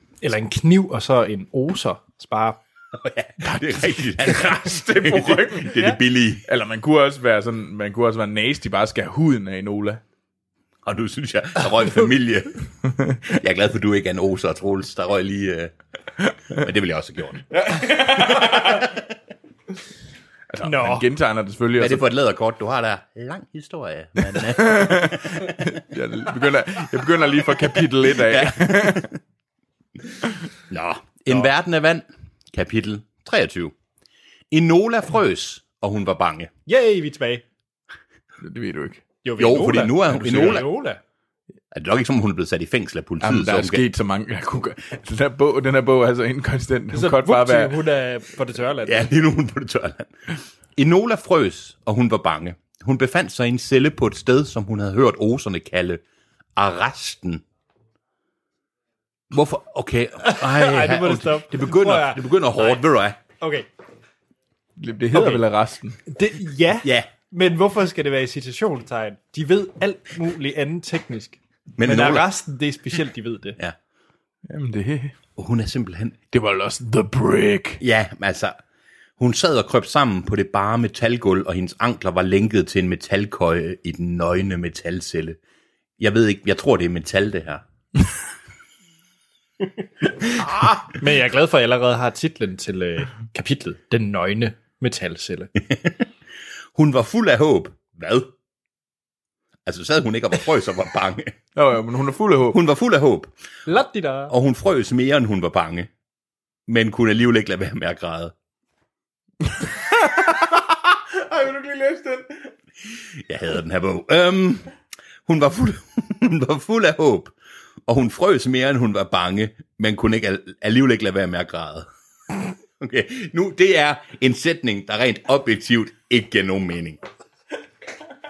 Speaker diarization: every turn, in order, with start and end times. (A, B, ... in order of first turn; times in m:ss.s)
0:00.2-0:02.6 A
0:02.9-0:06.4 B
0:04.3-0:05.9 C
0:06.5-0:10.0 C
0:10.8-0:12.6 B
0:13.2-0:15.7 B
0:16.5-0:17.5 B
0:17.5-0:18.9 C
0:18.6-0:19.0 B
0:20.5-0:22.0 C
0:20.6-0:21.1 A
0:21.8-0:25.6 B
0:24.3-0:29.1 C
0:28.2-0:29.1 B
0:30.7-0:33.7 B
0:34.5-0:36.5 B
0:36.7-0:37.4 A
0:38.4-0:39.0 C
0:39.2-0:41.0 A
0:39.4-0:40.7 B
0:41.7-0:43.8 B
0:43.2-0:47.8 C
0:46.9-0:49.1 A
0:48.8-0:56.0 B
0:56.6-0:57.4 B
0:59.3-1:03.2 B
1:00.2-1:02.8 A
1:03.4-1:03.7 A
1:04.8-1:06.0 C
1:05.1-1:05.4 A
1:06.1-1:13.6 A
1:06.8-1:07.1 B
1:11.8-1:12.3 B
1:14.5-1:15.1 C
1:15.4-1:16.2 B
1:16.3-1:17.8 C
1:17.8-1:18.6 B
1:19.2-1:25.4 B
1:26.0-1:27.6 B
1:30.4-1:30.8 B
1:30.9-1:35.5 A
1:35.6-1:36.1 B
1:36.8-1:38.3 B
1:39.7-1:41.4 B
1:41.6-1:42.6 C
1:42.5-1:43.3 B
1:43.7-1:44.3 A
1:44.3-1:45.9 B
1:46.7-1:48.4 B
1:49.9-1:52.5 C
1:53.2-1:54.7 B
1:55.3-1:57.3 B
1:57.9-2:01.9 B
2:02.8-2:07.0 B